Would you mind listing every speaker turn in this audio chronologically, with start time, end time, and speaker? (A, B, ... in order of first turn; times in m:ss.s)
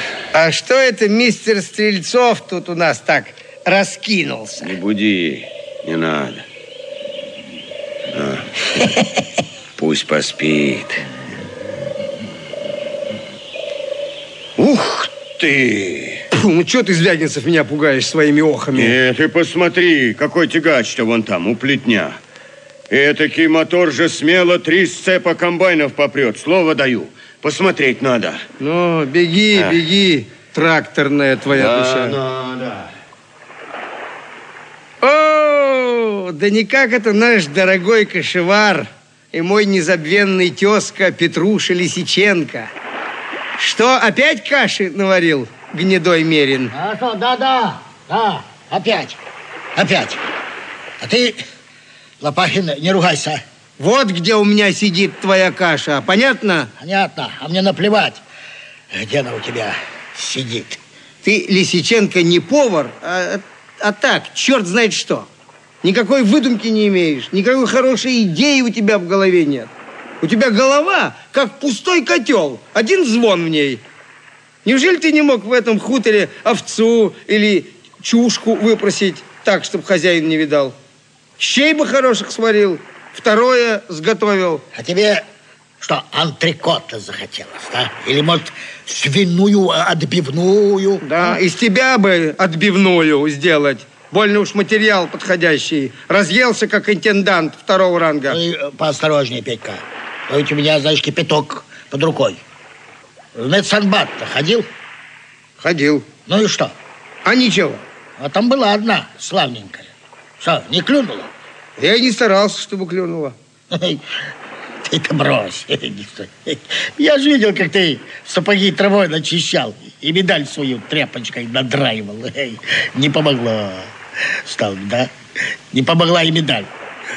0:00.3-0:04.7 A
0:04.6-0:06.4 B
0:08.1-0:08.5 B
0:09.8-0:11.1 B
0:14.6-0:16.2 B
0:16.3-0:19.0 A
0:18.8-0:22.2 B
0:22.9-0:28.4 B
0:28.6-0:32.2 A
0:31.5-0:32.9 B
0:35.0-0:42.7 A
0:43.6-0:46.7 A
0:46.7-0:49.2 C
0:49.8-0:50.2 C
0:51.0-0:51.4 C
0:52.2-0:53.4 C
0:53.8-0:56.7 A
0:56.8-0:58.2 C
0:58.9-1:00.8 C
1:01.2-1:05.3 A
1:05.8-1:09.7 A
1:10.2-1:13.8 A
1:14.6-1:20.8 A
1:21.4-1:24.6 A
1:24.7-1:25.2 C
1:25.8-1:31.4 C
1:31.0-1:38.4 A
1:38.3-1:42.4 C
1:43.4-1:44.7 C
1:45.6-1:46.1 A
1:46.3-1:46.7 C
1:47.2-1:47.8 A
1:48.2-1:49.9 C
1:50.4-1:51.3 C
1:51.8-1:53.4 A
1:53.7-1:54.0 C
1:54.8-2:03.9 C
2:04.4-2:05.1 C
2:05.7-2:06.7 C